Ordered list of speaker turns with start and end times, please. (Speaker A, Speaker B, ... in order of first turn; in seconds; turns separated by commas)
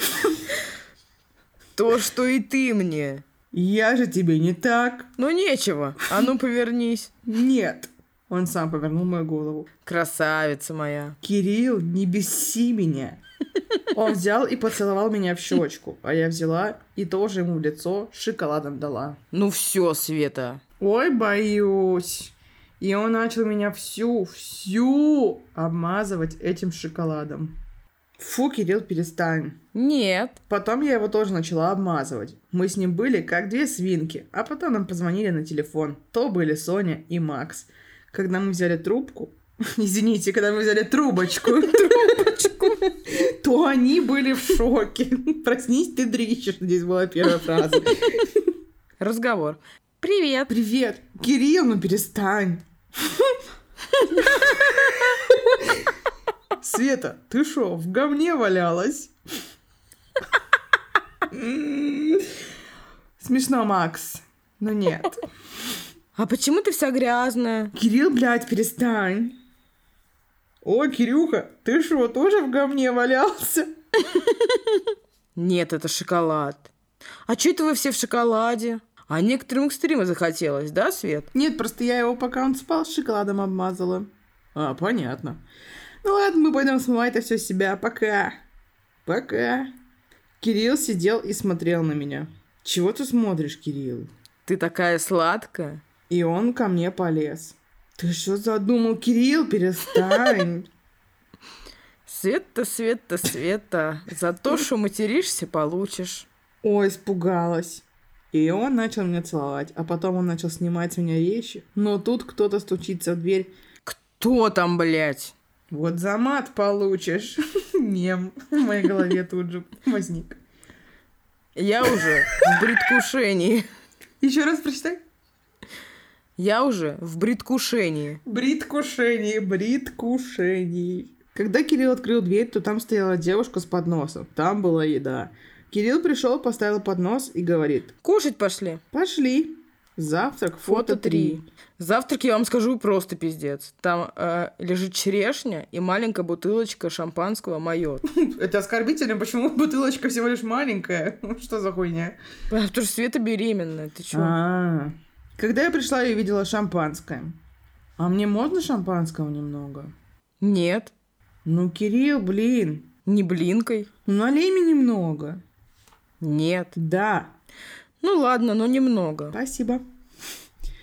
Speaker A: 1.8-3.2, Speaker B: 3.5-5.1, Speaker A: 5.2-7.1, Speaker B: 7.2-9.7, Speaker A: 9.8-11.2, Speaker B: 11.2-13.2, Speaker B: 13.9-19.2, Speaker A: 19.3-20.6, Speaker B: 20.8-27.6, Speaker B: 28.2-29.6, Speaker A: 29.7-30.4, Speaker B: 30.5-48.4, Speaker A: 41.6-42.8, Speaker A: 49.0-50.5, Speaker B: 50.5-53.3, Speaker B: 54.1-55.6, Speaker B: 56.6-59.1, Speaker B: 61.3-62.3, Speaker B: 63.2-65.2, Speaker A: 66.1-67.7, Speaker B: 67.7-69.4, Speaker B: 70.6-73.7, Speaker A: 74.0-76.7, Speaker A: 77.2-81.3, Speaker B: 81.3-85.4, Speaker B: 86.0-88.4, Speaker B: 89.0-89.7, Speaker B: 90.4-94.1, Speaker A: 94.5-95.8, Speaker B: 96.1-100.7, Speaker A: 102.0-106.3, Speaker B: 106.6-113.5, Speaker A: 113.8-115.3, Speaker B: 115.7-120.4, Speaker A: 121.5-123.6, Speaker B: 122.0-122.7, Speaker B: 124.2-125.0, Speaker A: 126.4-128.2, Speaker B: 128.2-137.9, Speaker A: 138.0-138.8, Speaker B: 138.9-141.4, Speaker A: 140.7-148.0, Speaker B: 148.1-152.2, Speaker A: 152.5-154.3, Speaker B: 154.1-157.4, Speaker B: 158.0-159.9, Speaker A: 160.4-160.9, Speaker B: 161.4-162.9, Speaker A: 163.1-163.9, Speaker B: 164.1-165.4, Speaker A: 166.2-166.7, Speaker B: 166.7-167.3, Speaker A: 168.0-169.3, Speaker B: 169.3-169.8